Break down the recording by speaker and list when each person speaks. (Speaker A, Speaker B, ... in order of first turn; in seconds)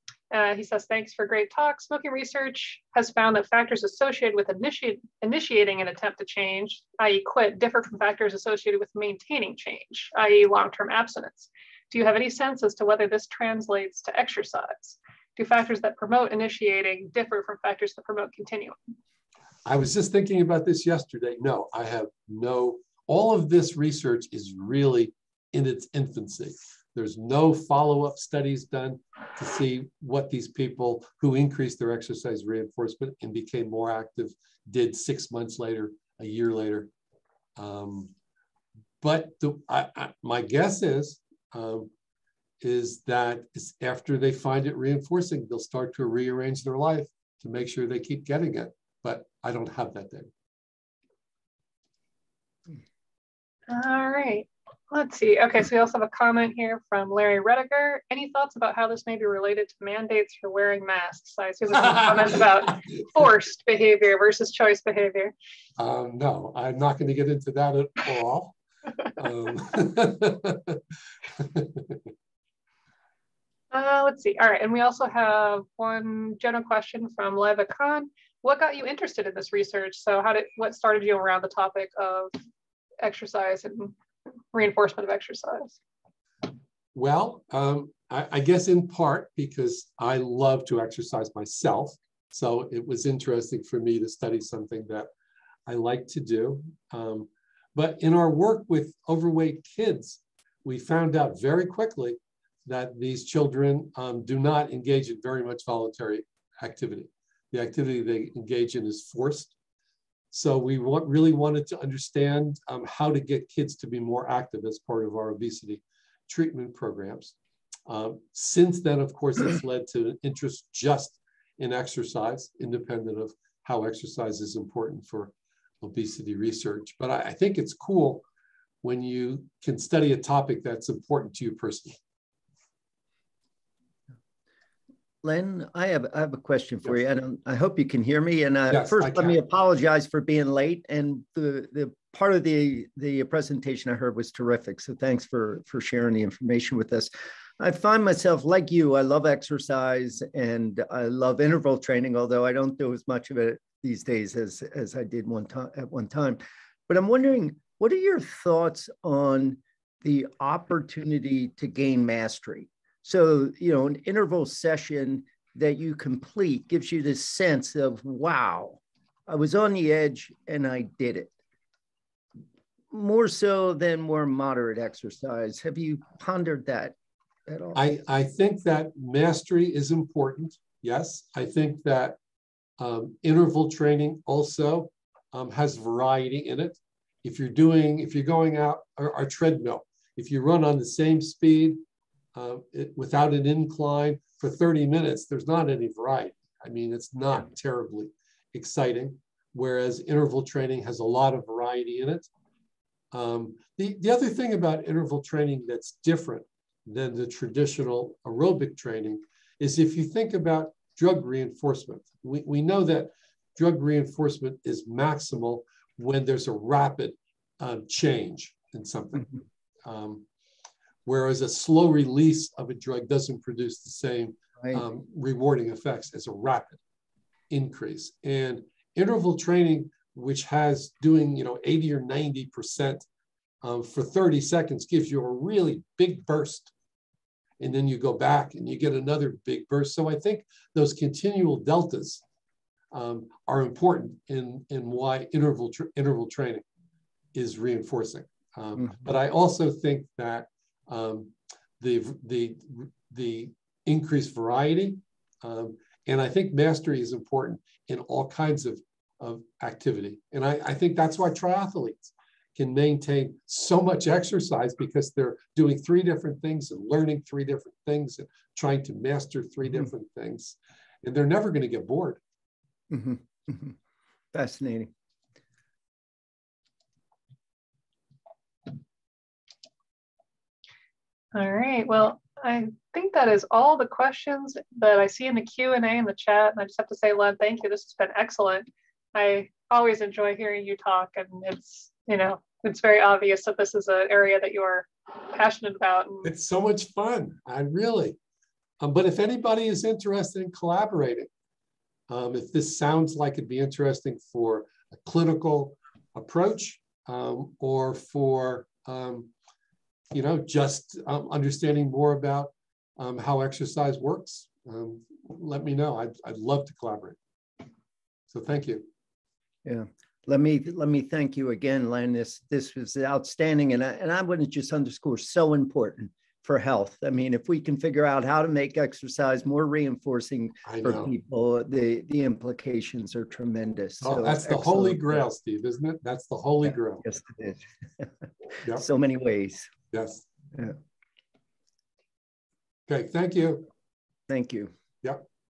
Speaker A: 0.3-18.9, 53.7-65.3, 73.7-82.3, 83.0-83.9, 84.5-85.8, 281.3-296.3
Speaker B: 19.7-36.9, 37.6-38.1, 39.0-41.9, 42.6-50.3, 65.8-68.6, 69.1-70.8, 71.4-72.1, 87.0-95.1, 95.7-109.5, 110.3-117.4, 117.9-128.2, 128.8-132.0, 138.7-139.4, 177.7-182.2, 182.8-191.8, 192.3-202.3, 203.1-220.3, 221.1-226.8, 227.5-233.1, 233.6-236.7, 237.6-242.2, 242.9-246.7, 247.3-272.2, 296.2-298.2, 298.8-301.3, 302.1-309.3, 310.1-317.2, 318.3-318.9, 330.6-331.1, 334.0-337.1, 339.9-340.3, 342.9-343.7
Speaker C: 135.2-171.3, 172.9-177.0, 177.5-177.8, 272.9-273.8, 274.3-274.9, 319.6-335.2, 336.7-338.1, 338.7-339.7, 344.3-344.7